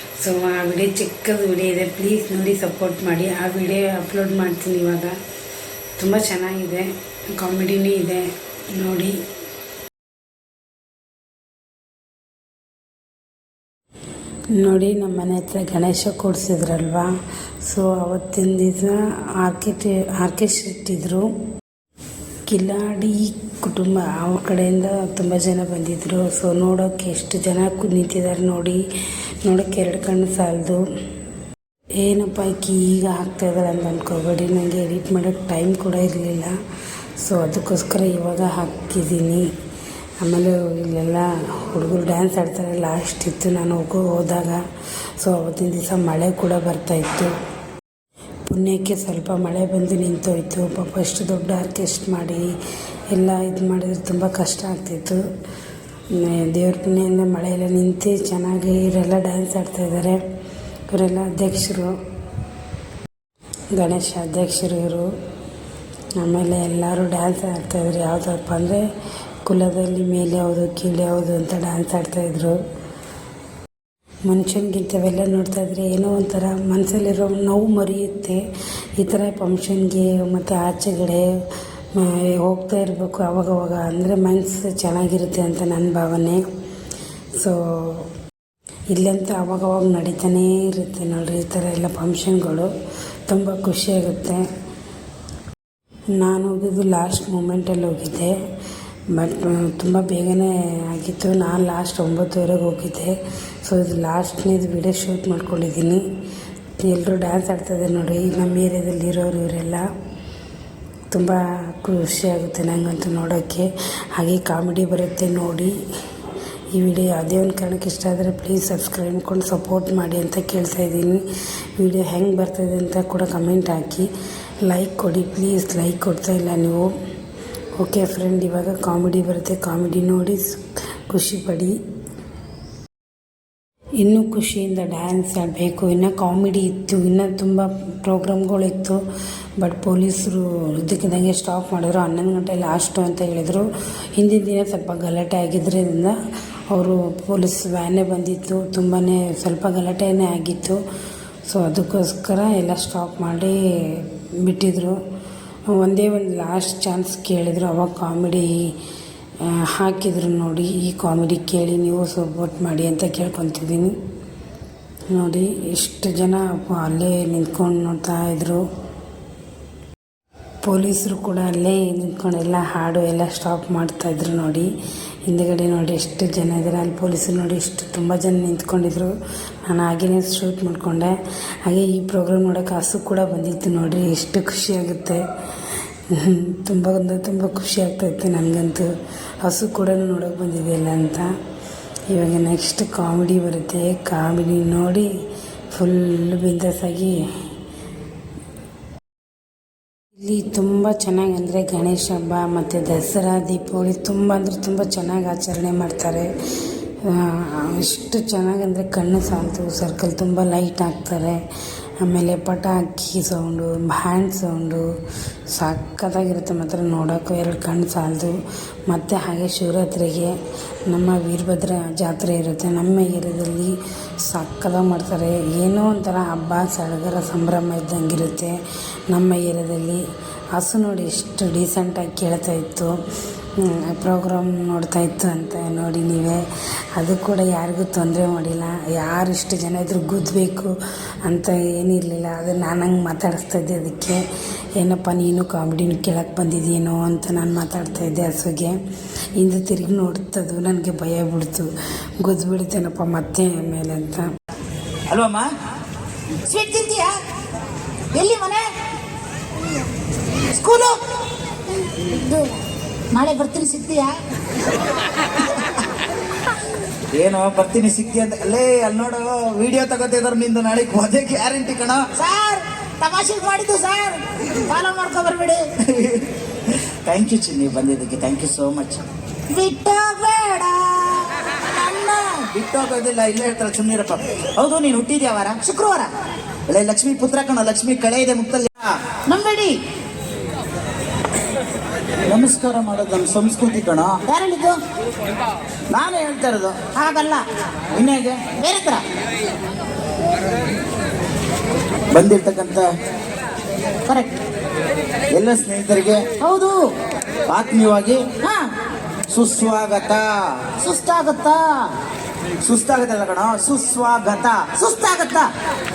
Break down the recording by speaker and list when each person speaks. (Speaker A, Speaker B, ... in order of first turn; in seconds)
Speaker A: 0.2-5.2, 6.0-9.2, 14.5-17.1, 17.6-21.3, 22.5-28.8, 29.4-30.8, 32.0-36.5, 37.2-39.5, 40.2-44.6, 45.2-47.3, 48.5-52.5, 53.1-55.2, 56.1-60.2, 60.9-62.0, 63.7-65.1, 66.2-68.8, 69.4-72.6, 74.3-78.4, 79.0-81.3, 81.9-86.4, 87.4-88.1, 88.9-92.7, 93.3-94.5, 96.2-98.3, 99.1-106.0, 106.8-109.9, 111.1-115.7, 116.7-121.2, 121.8-124.1, 124.6-126.9, 127.8-131.8, 134.0-139.0, 139.6-143.7, 144.2-146.1, 146.7-150.8, 151.5-155.0, 155.7-158.7, 159.4-163.9, 165.1-168.6, 170.6-174.7, 175.3-179.1, 179.7-185.2, 186.1-191.3, 192.1-195.1, 195.7-197.2, 200.2-206.3, 207.0-211.4, 212.0-214.9, 215.5-218.3, 218.9-220.3, 220.9-228.6, 229.1-230.0, 230.5-232.9, 233.6-236.4, 236.9-240.7, 241.2-244.2, 244.8-248.8, 249.4-254.3
Speaker B: 255.1-255.5, 267.1-272.1, 275.8-279.0, 281.9-285.6, 286.7-288.9, 292.3-294.2, 295.9-296.9, 297.9-298.5, 302.1-302.9, 305.3-306.3, 307.5-308.4, 309.3-310.6, 312.6-314.7
Speaker C: 256.4-257.2, 258.1-258.6, 260.5-261.0, 262.0-262.5, 263.1-264.1, 272.1-275.6, 279.5-282.1, 285.6-286.1, 289.3-289.8, 294.2-294.8, 296.9-297.4, 298.5-299.0, 304.1-304.3, 306.4-306.9, 310.8-311.9, 314.8-315.5